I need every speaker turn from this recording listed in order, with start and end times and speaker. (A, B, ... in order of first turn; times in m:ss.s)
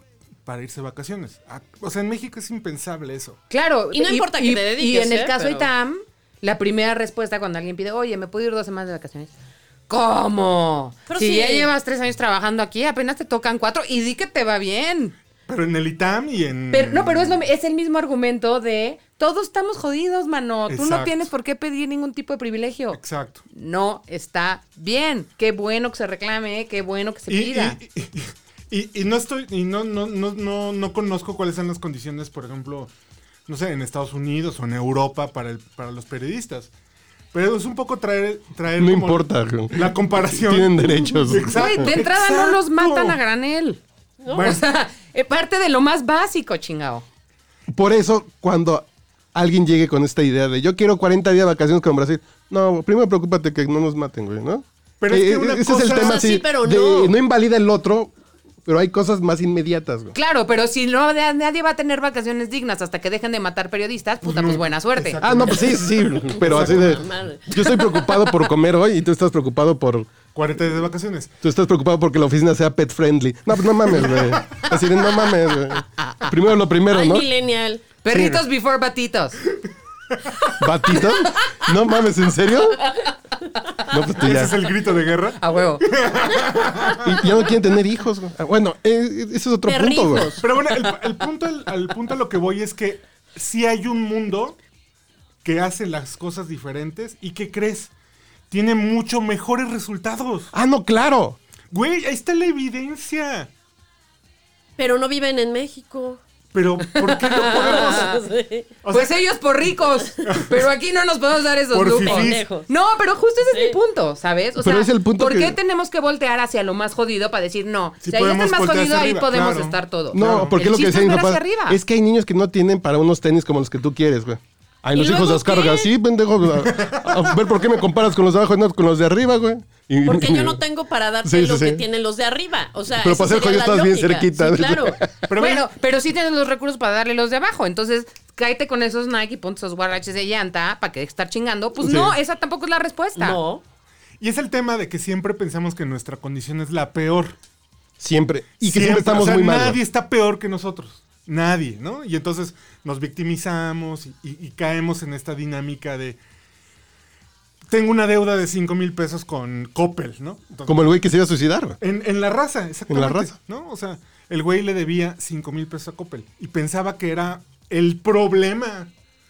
0:00.4-0:03.4 A
0:03.5-0:09.3 B
0:03.9-0:05.7 C
0:09.9-0:15.1 B
0:11.1-0:11.7 C
0:15.5-0:17.4 A
0:16.7-0:23.0 B
0:20.7-0:21.3 A
0:22.9-0:23.4 A
0:23.5-0:27.8 B
0:27.3-0:32.9 A
0:33.5-0:36.7 A
0:37.3-0:43.2 A
0:38.8-0:41.9 D
0:41.4-0:43.8 B
0:44.2-0:44.6 C
0:44.3-0:44.6 A
0:44.4-0:47.0 B
0:47.7-0:58.1 D
0:55.0-0:56.3 A
0:55.9-0:57.2 C
0:58.6-1:00.2 D
1:00.1-1:05.5 B
1:04.2-1:07.1 A
1:05.2-1:10.2 D
1:06.5-1:08.2 C
1:10.3-1:11.4 A
1:11.4-1:17.2 D
1:13.9-1:14.7 A
1:16.9-1:17.8 C
1:18.0-1:19.4 B
1:18.1-1:18.4 D
1:20.6-1:22.9 D
1:23.8-1:24.6 D
1:24.2-1:27.3 A
1:25.4-1:25.9 B
1:27.0-1:30.4 D
1:29.6-1:30.4 C
1:30.4-1:34.6 A
1:35.4-1:37.9 A
1:38.5-1:40.5 A
1:40.5-1:41.4 D
1:41.7-1:43.5 A
1:44.8-1:46.2 C
1:46.5-1:48.2 A
1:47.0-1:48.7 C
1:48.8-1:49.2 A
1:48.9-2:01.8 B
1:50.3-1:50.6 A
1:51.7-1:52.4 A
1:52.0-1:52.7 C
1:53.5-1:53.8 C
1:54.6-1:55.6 D
1:58.0-2:00.6 A
2:00.1-2:10.6 D
2:04.9-2:05.9 C
2:06.7-2:07.3 A
2:10.0-2:15.0 C
2:11.2-2:11.8 D
2:13.0-2:15.2 D
2:15.3-2:15.6 A
2:15.4-2:23.4 B
2:21.8-2:22.1 D
2:23.2-2:23.6 C
2:24.2-2:27.4 A
2:28.0-2:29.8 D
2:28.6-2:36.2 A
2:37.7-2:40.9 A
2:40.6-2:41.8 D
2:41.8-2:48.9 A
2:42.9-2:43.4 D